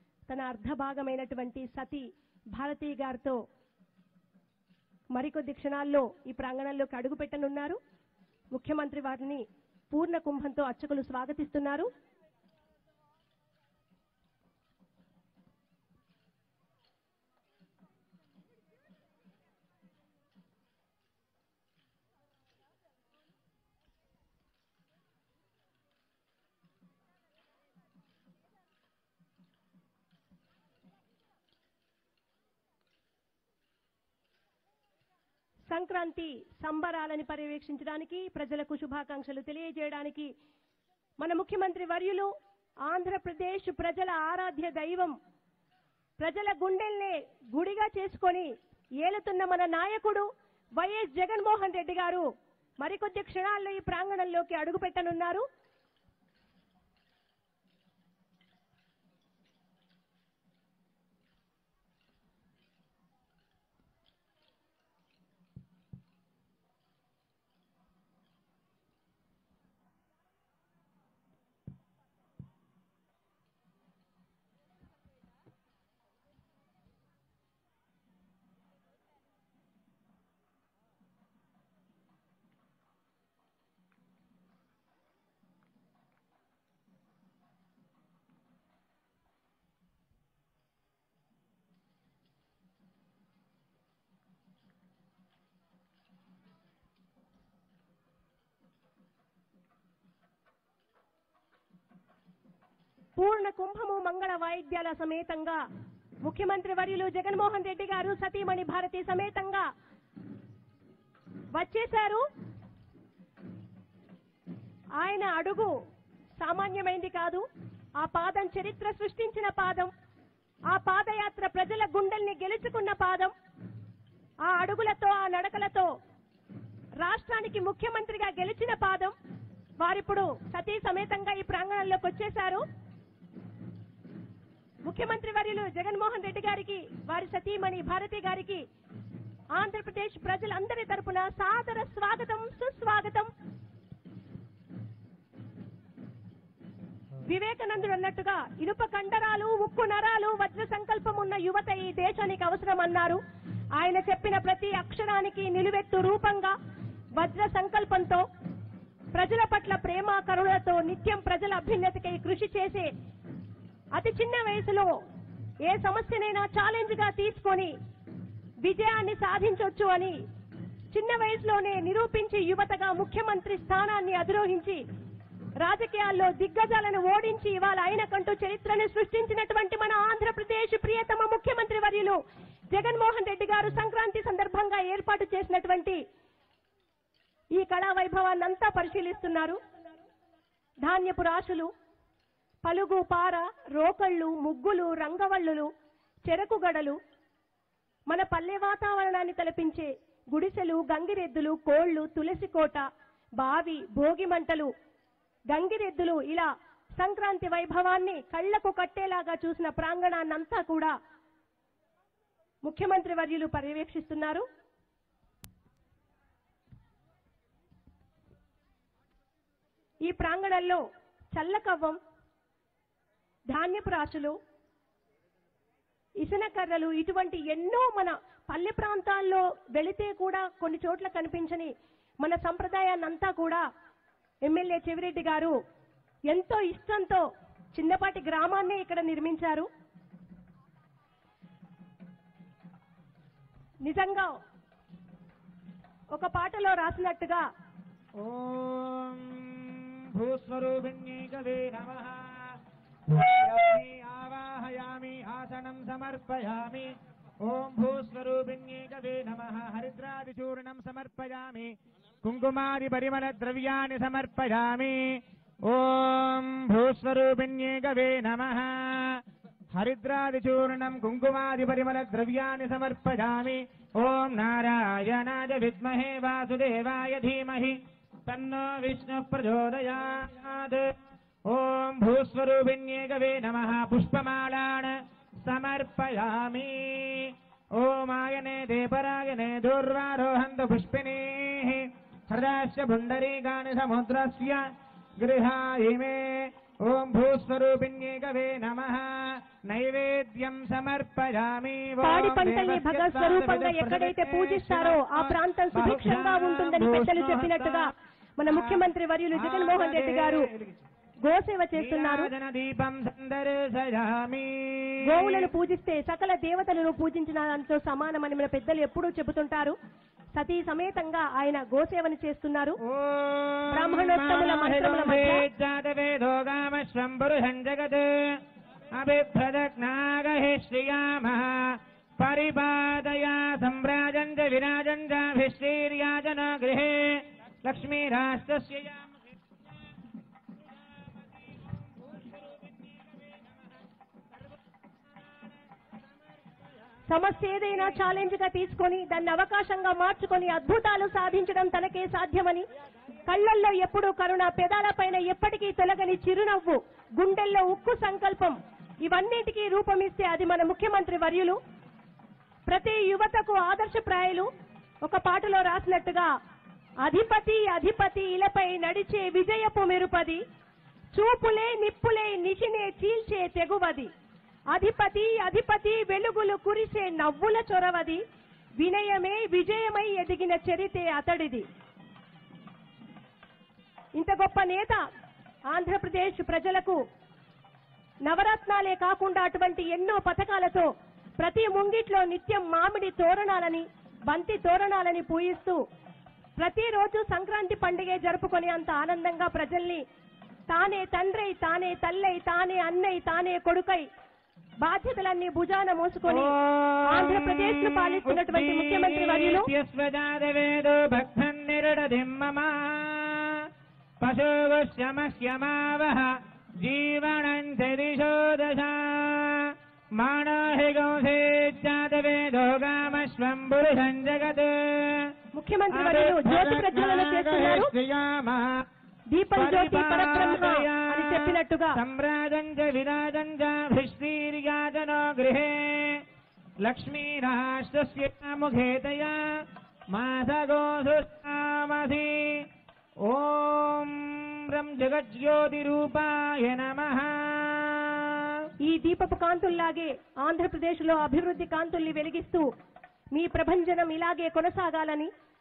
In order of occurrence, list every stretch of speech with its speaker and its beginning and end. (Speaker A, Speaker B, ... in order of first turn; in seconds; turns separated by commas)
Speaker A: 0.3-3.4, Speaker A: 5.1-7.8, Speaker A: 8.5-11.9, Speaker A: 35.7-40.3, Speaker A: 41.2-42.3, Speaker A: 42.9-45.1, Speaker A: 46.2-48.5, Speaker A: 49.0-50.3, Speaker A: 50.8-52.2, Speaker A: 52.8-55.4, Speaker A: 103.2-105.6, Speaker A: 106.2-109.7, Speaker A: 111.5-112.2, Speaker A: 115.0-115.7, Speaker A: 116.4-117.4, Speaker A: 118.0-119.9, Speaker A: 120.7-123.3, Speaker A: 124.5-125.9, Speaker A: 127.0-129.1, Speaker A: 129.8-132.6, Speaker A: 134.8-138.6, Speaker A: 139.5-143.3, Speaker A: 147.3-153.2, Speaker A: 153.8-156.5, Speaker A: 157.2-158.2, Speaker A: 159.1-162.9, Speaker A: 163.9-164.9, Speaker A: 165.6-167.7, Speaker A: 168.6-170.2, Speaker A: 170.9-174.8, Speaker A: 175.6-182.2, Speaker A: 182.7-186.0, Speaker A: 187.6-189.6, Speaker A: 190.8-191.7, Speaker A: 192.6-195.7, Speaker A: 196.3-196.9, Speaker A: 198.1-202.8, Speaker A: 203.4-204.7, Speaker A: 205.5-210.9, Speaker A: 212.6-214.4, Speaker A: 220.0-220.8, Speaker A: 221.3-222.0, Speaker A: 223.5-224.3, Speaker A: 226.2-233.6, Speaker A: 234.4-235.5, Speaker A: 236.3-239.7, Speaker A: 243.8-244.4, Speaker A: 246.1-247.4, Speaker B: 248.2-280.9, Speaker B: 281.5-294.7, Speaker B: 295.2-307.9, Speaker A: 302.0-310.5, Speaker B: 308.4-310.9, Speaker A: 311.2-312.3, Speaker B: 311.7-315.5, Speaker A: 315.1-319.8, Speaker A: 320.3-322.8, Speaker B: 322.8-328.4, Speaker A: 323.7-325.4, Speaker B: 328.9-339.2, Speaker B: 342.1-342.4, Speaker A: 347.1-352.6, Speaker A: 353.2-361.6, Speaker A: 362.7-364.5, Speaker A: 365.0-366.3, Speaker A: 367.0-370.4, Speaker A: 371.1-374.1, Speaker A: 374.7-378.2, Speaker A: 378.8-381.6, Speaker A: 384.2-385.0, Speaker A: 385.7-387.0, Speaker A: 388.2-390.9, Speaker A: 391.4-395.8, Speaker A: 396.6-400.0, Speaker A: 400.7-404.1, Speaker A: 404.8-406.5, Speaker B: 406.3-413.7, Speaker A: 407.1-409.7, Speaker B: 414.2-425.3, Speaker A: 425.5-427.9, Speaker B: 425.9-428.8, Speaker A: 429.3-432.0, Speaker B: 429.6-436.2, Speaker B: 436.8-442.7, Speaker B: 443.2-448.6, Speaker A: 448.8-452.7, Speaker A: 453.3-455.3